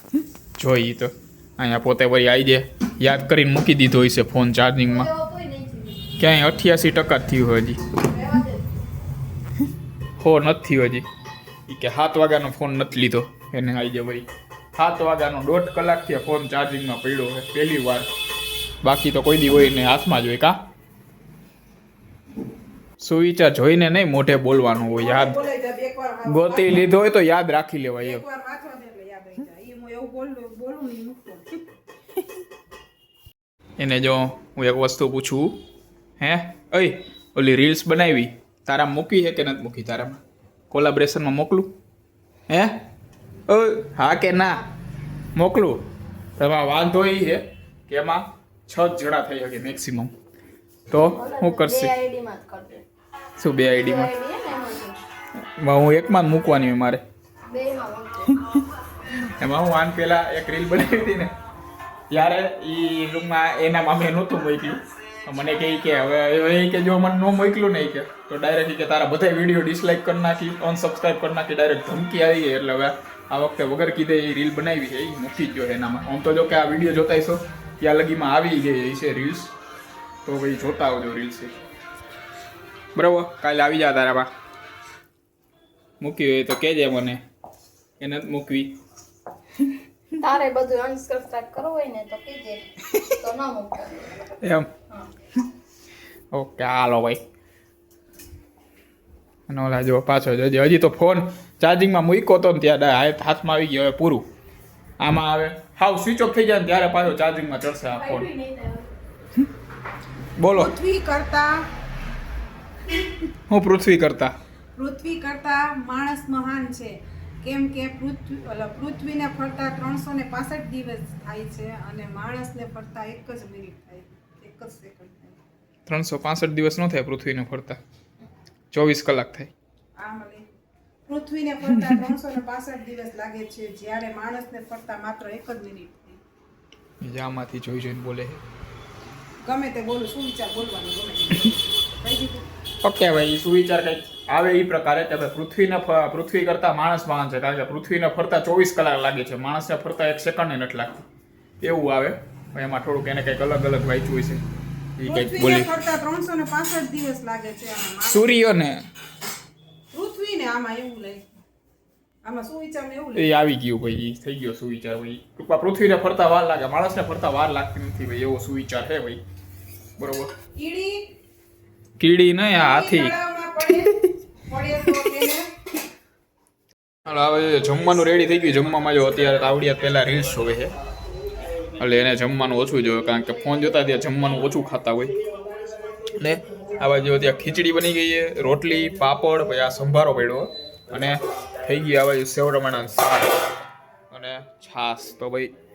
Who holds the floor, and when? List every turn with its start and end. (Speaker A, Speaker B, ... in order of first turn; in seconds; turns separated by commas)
Speaker A: 0.6-5.1, Speaker B: 4.8-6.1, Speaker A: 6.2-7.8, Speaker B: 8.0-8.8, Speaker A: 10.2-11.1, Speaker A: 11.7-18.1, Speaker A: 18.8-20.6, Speaker A: 23.0-25.4, Speaker C: 25.0-26.8, Speaker A: 26.3-28.2, Speaker C: 28.0-31.5, Speaker A: 33.8-35.6, Speaker A: 36.2-41.8, Speaker A: 42.5-42.8, Speaker A: 43.5-44.6, Speaker A: 45.4-45.8, Speaker A: 46.4-50.1, Speaker A: 50.9-51.9, Speaker B: 51.0-52.9, Speaker A: 53.4-54.1, Speaker B: 53.7-55.0, Speaker A: 55.6-57.0, Speaker B: 57.5-58.4, Speaker A: 58.4-61.3, Speaker A: 62.1-79.5, Speaker A: 80.2-81.5, Speaker A: 83.0-84.3, Speaker A: 86.0-87.2, Speaker A: 88.0-88.8, Speaker B: 90.2-94.2, Speaker A: 94.3-94.7, Speaker A: 96.3-97.2, Speaker A: 99.5-104.2, Speaker A: 105.0-108.3, Speaker B: 107.9-108.9, Speaker A: 110.4-110.7, Speaker C: 110.5-111.7, Speaker A: 113.5-114.3, Speaker C: 114.8-125.4, Speaker A: 125.9-127.8, Speaker A: 128.7-129.5, Speaker C: 130.0-130.5, Speaker C: 131.1-136.2, Speaker A: 137.0-138.4, Speaker C: 139.4-142.5, Speaker A: 142.8-151.0, Speaker A: 151.6-154.4, Speaker A: 155.0-155.7, Speaker C: 155.0-158.6, Speaker A: 158.1-158.8, Speaker C: 159.9-161.3, Speaker C: 162.2-163.3, Speaker A: 163.2-169.2, Speaker A: 170.0-170.3, Speaker C: 170.6-171.1, Speaker A: 172.0-173.2, Speaker C: 172.5-173.9, Speaker C: 174.4-175.5, Speaker A: 177.1-180.7, Speaker A: 181.8-185.1, Speaker A: 186.2-193.3, Speaker A: 194.1-195.5